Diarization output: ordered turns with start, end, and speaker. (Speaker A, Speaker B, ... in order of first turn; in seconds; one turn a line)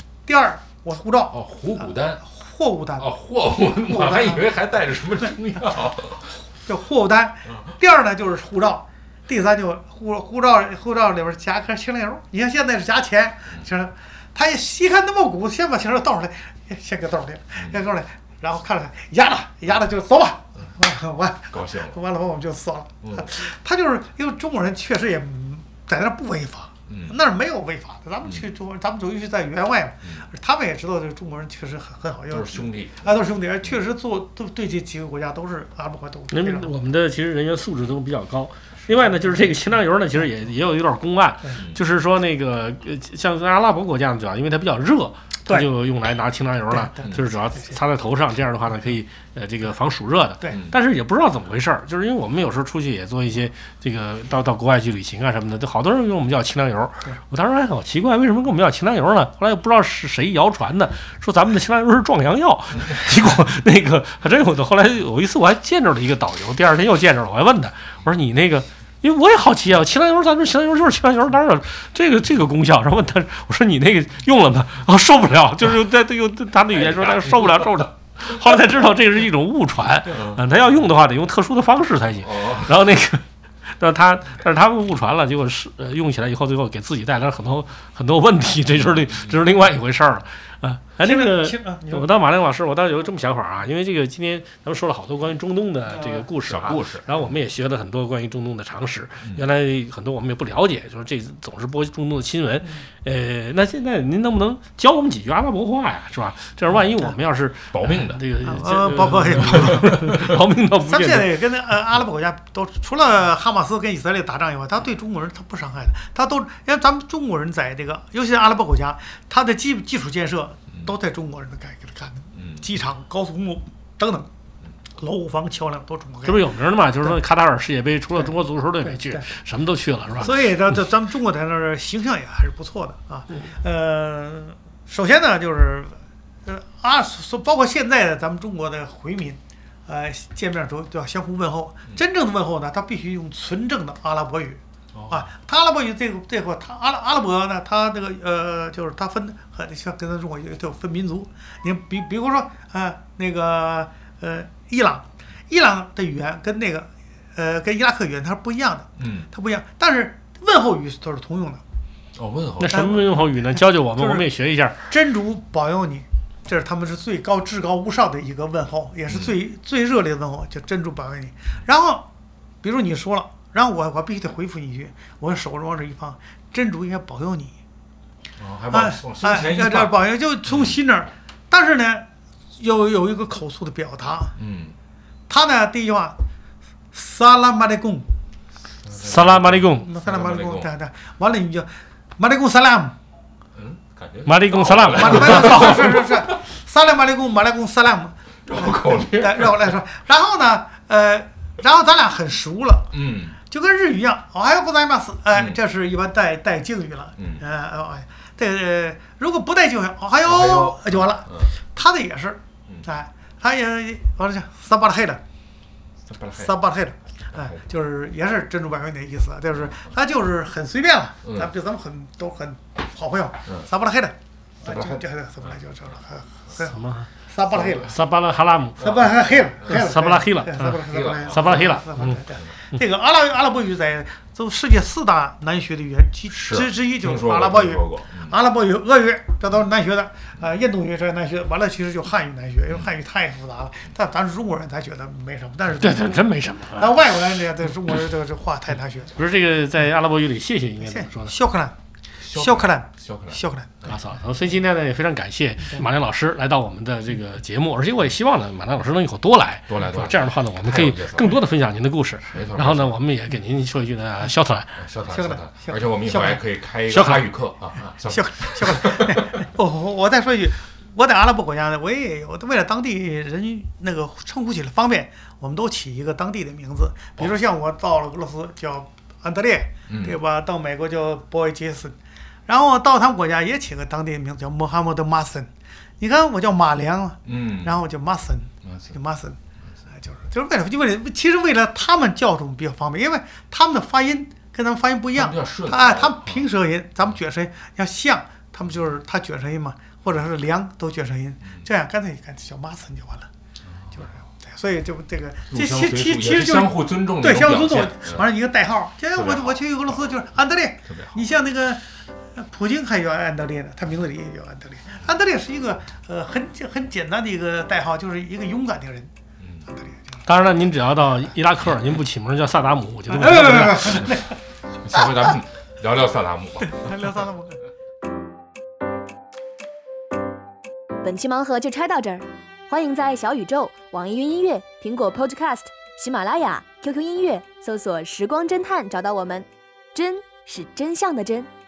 Speaker A: 0.2-1.4
Speaker B: 1.3-2.2
Speaker A: 2.2-3.1
Speaker B: 3.0-6.4
Speaker A: 3.8-4.5
Speaker A: 6.7-36.7
Speaker B: 17.6-17.8
Speaker B: 21.5-22.0
Speaker B: 23.0-23.3
Speaker B: 26.9-27.2
Speaker B: 30.0-30.3
Speaker B: 32.3-33.8
Speaker C: 36.3-83.2
Speaker A: 46.7-47.8
Speaker B: 50.5-50.7
Speaker B: 76.8-77.6
Speaker B: 80.1-80.4
Speaker B: 82.2-82.8
Speaker C: 83.8-111.3
Speaker B: 89.0-89.3
Speaker A: 91.0-92.1
Speaker A: 95.9-96.2
Speaker B: 96.4-97.3
Speaker B: 107.7-108.2
Speaker A: 108.4-110.1
Speaker B: 109.5-110.2
Speaker A: 110.9-124.3
Speaker B: 122.3-122.7
Speaker A: 125.0-126.5
Speaker C: 126.2-130.4
Speaker A: 128.8-129.3
Speaker A: 130.2-161.6
Speaker B: 144.9-145.3
Speaker B: 159.0-159.3
Speaker B: 162.2-163.0
Speaker C: 162.6-164.8
Speaker A: 162.7-163.0
Speaker A: 164.0-164.2
Speaker A: 164.9-172.1
Speaker B: 169.1-169.4
Speaker A: 172.6-177.5
Speaker B: 178.4-180.8
Speaker A: 178.7-182.1
Speaker A: 182.6-184.3
Speaker B: 184.3-184.8
Speaker A: 185.3-186.2
Speaker A: 186.9-188.1
Speaker B: 188.8-190.7
Speaker C: 188.9-189.9
Speaker A: 189.8-192.9
Speaker B: 193.5-196.4
Speaker C: 194.2-195.8
Speaker A: 194.9-202.9
Speaker B: 198.5-199.8
Speaker B: 202.9-203.4
Speaker A: 203.5-215.2
Speaker B: 205.3-205.6
Speaker B: 207.2-207.4
Speaker B: 210.2-211.5
Speaker B: 216.0-216.6
Speaker A: 216.4-227.9
Speaker B: 217.3-217.7
Speaker B: 221.2-221.5
Speaker B: 224.6-225.0
Speaker C: 226.6-227.1
Speaker B: 227.5-227.9
Speaker C: 227.8-229.0
Speaker A: 228.8-246.2
Speaker C: 229.6-232.2
Speaker B: 230.7-232.5
Speaker B: 236.3-238.3
Speaker C: 245.8-246.9
Speaker A: 246.8-249.1
Speaker C: 249.2-251.3
Speaker A: 250.8-251.7
Speaker B: 252.2-254.0
Speaker A: 252.3-253.8
Speaker C: 253.9-264.8
Speaker B: 259.7-261.4
Speaker B: 262.3-263.0
Speaker B: 264.8-269.3
Speaker A: 265.1-266.4
Speaker C: 266.9-267.3
Speaker A: 268.0-281.9
Speaker B: 279.9-280.2
Speaker A: 282.5-289.4
Speaker B: 287.2-287.8
Speaker B: 288.6-288.9
Speaker A: 289.9-303.3
Speaker B: 295.1-296.4
Speaker B: 303.6-304.1
Speaker A: 303.9-311.8
Speaker B: 305.5-308.3
Speaker B: 309.1-310.0
Speaker B: 310.9-311.2
Speaker A: 312.3-319.1
Speaker B: 319.4-319.7
Speaker A: 319.7-320.2
Speaker C: 320.2-324.1
Speaker A: 323.1-324.3
Speaker B: 324.8-327.1
Speaker A: 326.6-327.6
Speaker D: 331.0-341.5